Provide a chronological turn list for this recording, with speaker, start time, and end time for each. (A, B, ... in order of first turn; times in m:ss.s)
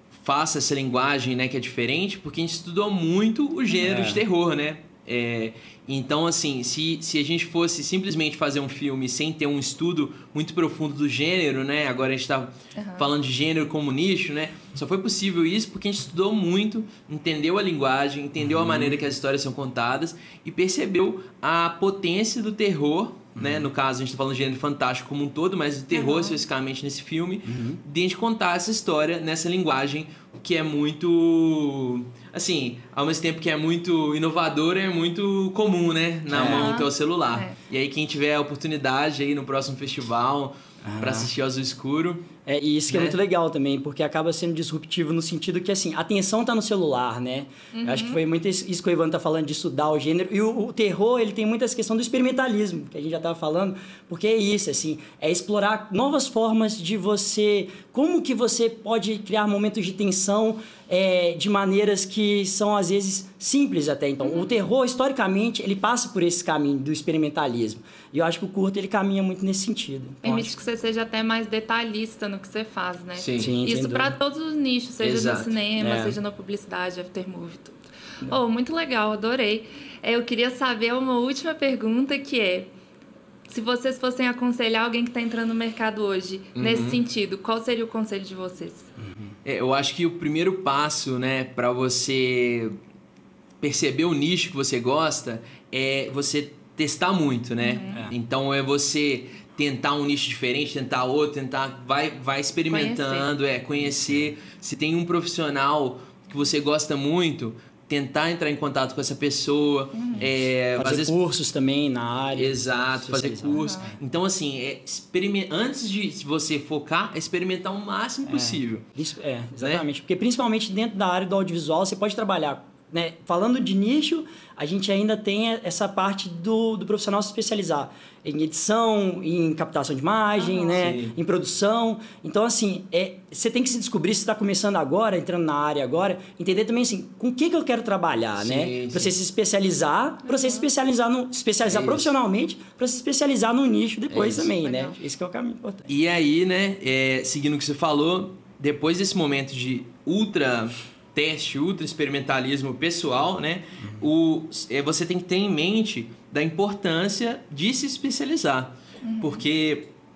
0:00.1-0:42.2 A
0:03.8-0:04.2 B
0:12.8-0:13.1 C
0:18.5-0:19.0 B
0:23.4-0:23.7 B
0:25.9-0:26.4 C
0:27.5-0:27.8 B
0:36.3-0:36.8 B
0:36.4-0:37.6 C
0:40.8-0:41.3 B
0:42.5-1:10.5 B
0:42.9-0:43.2 A
0:47.7-0:48.2 C
1:10.2-1:22.7 C
1:13.1-1:13.6 A
1:13.4-1:14.1 B
1:15.0-1:15.6 A
1:15.8-1:16.2 B
1:23.5-1:28.9 C
1:26.6-1:27.0 A
1:29.0-1:29.3 B
1:29.4-1:32.8 A
1:33.6-1:51.1 A
1:37.6-1:38.1 C
1:42.7-1:43.3 C
1:49.9-1:50.3 C
1:50.1-1:54.0 B
1:52.3-1:58.9 A
1:53.6-1:53.9 C
1:58.3-2:25.9 B
1:59.6-1:59.8 A
2:10.4-2:10.9 C
2:10.8-2:11.1 A
2:18.4-2:19.1 A
2:20.2-2:20.7 C
2:21.7-2:22.1 A
2:24.1-2:24.5 A
2:24.4-2:25.0 C
2:25.9-2:39.9 A
2:33.8-2:34.1 B
2:39.0-2:39.4 C